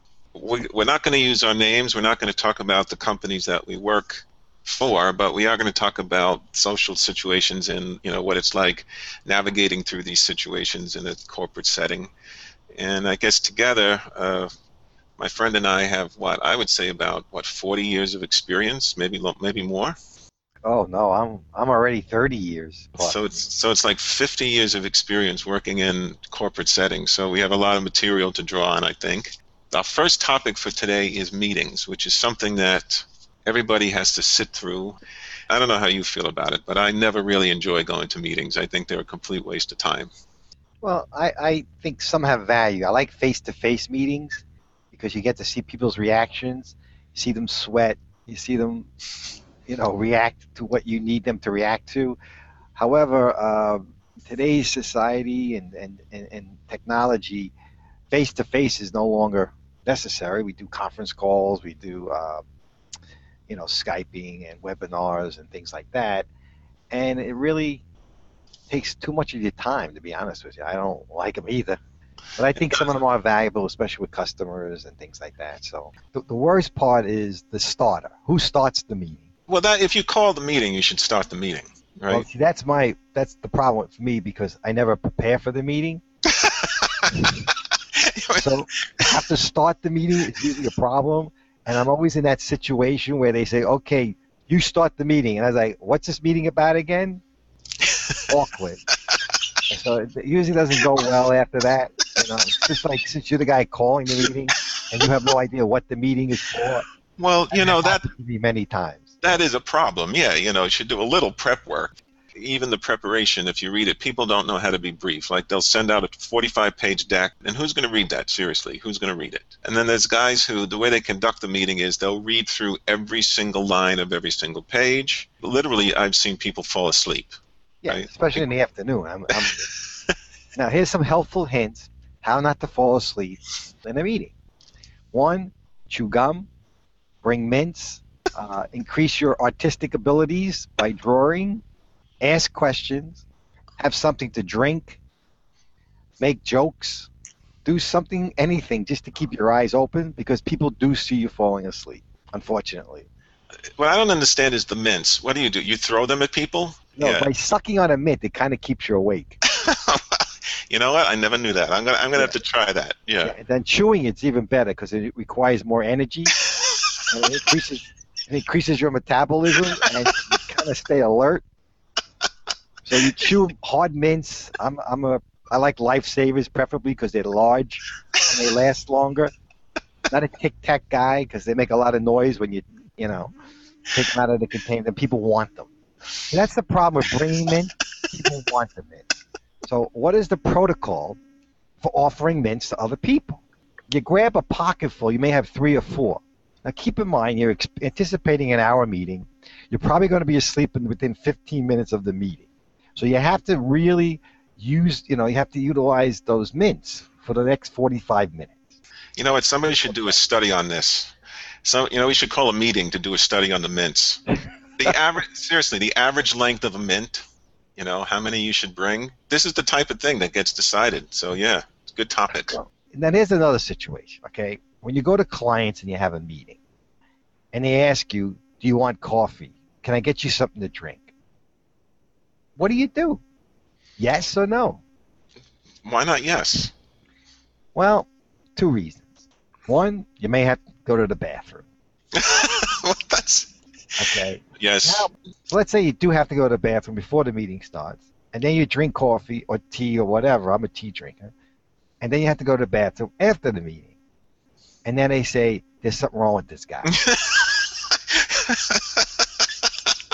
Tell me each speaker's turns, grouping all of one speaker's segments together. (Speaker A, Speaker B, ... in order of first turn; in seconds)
Speaker A: 0.3-12.1, 12.8-14.5, 15.2-20.0, 23.0-35.0, 35.5-40.1, 79.5-82.3, 86.4-87.2, 88.0-89.0, 107.2-108.1, 109.2-127.3, 127.9-128.5, 129.4-130.1, 153.8-157.3, 159.5-163.3, 209.2-211.1, 211.7-214.2, 214.8-217.2, 217.8-222.6, 235.8-236.7, 242.2-243.5, 244.6-245.1, 256.9-257.6, 258.2-259.0
Speaker B: 20.6-23.2, 40.8-44.4, 44.9-48.9, 49.7-52.2, 52.8-57.5, 58.1-62.4, 63.5-66.3, 66.9-67.8, 68.7-71.8, 72.4-79.3, 82.1-86.0, 88.4-97.2, 98.3-98.8, 99.7-106.9, 107.5-109.4, 127.8-129.7, 130.6-134.3, 135.1-136.5, 137.2-141.6, 142.2-143.2, 143.8-145.0, 146.2-147.1, 147.7-153.1, 157.0-159.4, 163.2-166.3, 167.1-171.4, 172.9-179.3, 180.1-183.3, 183.9-185.7, 186.3-189.1, 189.7-191.2, 191.8-208.6, 209.7-210.2, 222.3-226.6, 227.5-231.1, 232.6-233.2, 234.0-234.8, 237.8-239.1, 239.7-241.6, 244.0-251.3, 252.0-253.9, 254.8-256.9